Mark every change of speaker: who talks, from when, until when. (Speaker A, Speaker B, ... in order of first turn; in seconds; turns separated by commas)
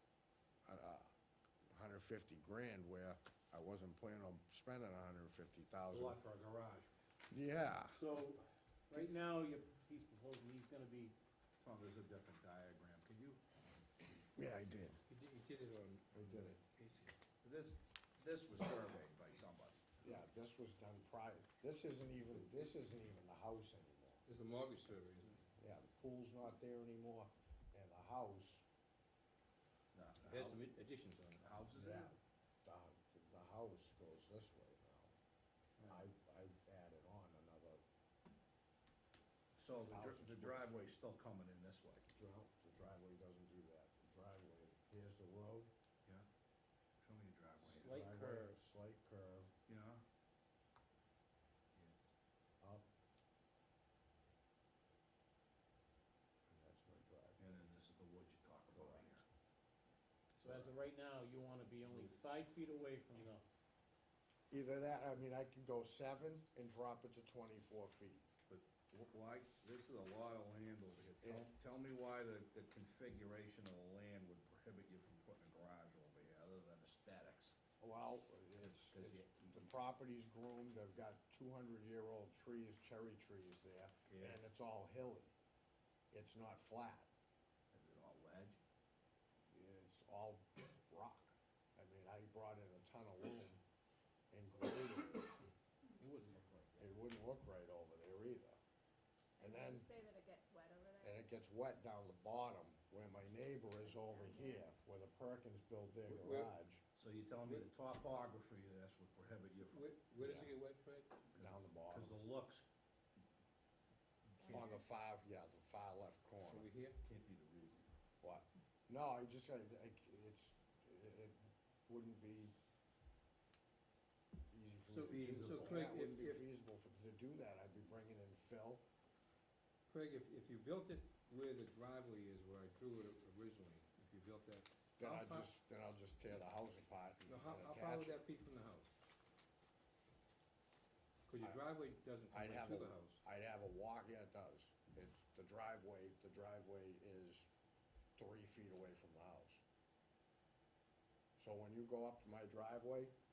Speaker A: 0.7-1.1, Speaker A: 1.7-6.2, Speaker B: 5.9-6.9, Speaker A: 7.3-8.0, Speaker C: 7.9-11.2, Speaker B: 11.6-13.4, Speaker A: 14.3-15.0, Speaker D: 15.1-17.2, Speaker A: 16.1-16.6, Speaker B: 17.4-19.9, Speaker A: 20.0-24.2, Speaker D: 24.3-25.5, Speaker A: 25.6-28.7, Speaker B: 29.9-30.6, Speaker D: 30.3-31.6, Speaker B: 31.4-32.1, Speaker A: 31.8-35.1, Speaker B: 35.8-36.0, Speaker A: 35.9-37.8, Speaker B: 39.5-42.1, Speaker A: 39.9-40.7, Speaker A: 42.1-45.7, Speaker B: 47.0-48.0, Speaker A: 47.6-49.5, Speaker C: 47.8-48.6, Speaker B: 49.7-50.0, Speaker A: 52.6-52.9, Speaker A: 56.5-57.5, Speaker B: 57.4-59.2, Speaker A: 58.7-59.1, Speaker C: 60.4-63.4, Speaker A: 64.5-68.3, Speaker B: 68.5-77.6, Speaker A: 77.8-85.3, Speaker B: 78.6-79.7, Speaker B: 84.1-84.4, Speaker A: 86.1-87.1, Speaker B: 87.7-88.6, Speaker A: 89.5-93.6, Speaker A: 94.3-95.4, Speaker D: 96.0-96.8, Speaker A: 96.8-98.6, Speaker A: 99.4-99.9, Speaker E: 99.4-101.2, Speaker A: 101.0-106.8, Speaker E: 103.9-104.7, Speaker D: 106.1-106.5, Speaker B: 107.0-110.5, Speaker D: 109.7-111.2, Speaker A: 110.2-110.5, Speaker B: 111.3-112.7, Speaker A: 111.4-112.2, Speaker B: 114.4-114.8, Speaker A: 114.4-116.7, Speaker D: 116.5-117.0, Speaker B: 117.0-117.9, Speaker A: 118.2-122.5, Speaker A: 124.5-128.8, Speaker D: 124.9-126.4, Speaker B: 124.9-125.8, Speaker D: 129.9-135.5, Speaker A: 135.0-138.2, Speaker D: 137.3-138.9, Speaker D: 141.3-143.2, Speaker A: 142.3-147.5, Speaker A: 148.2-149.6, Speaker A: 151.4-153.2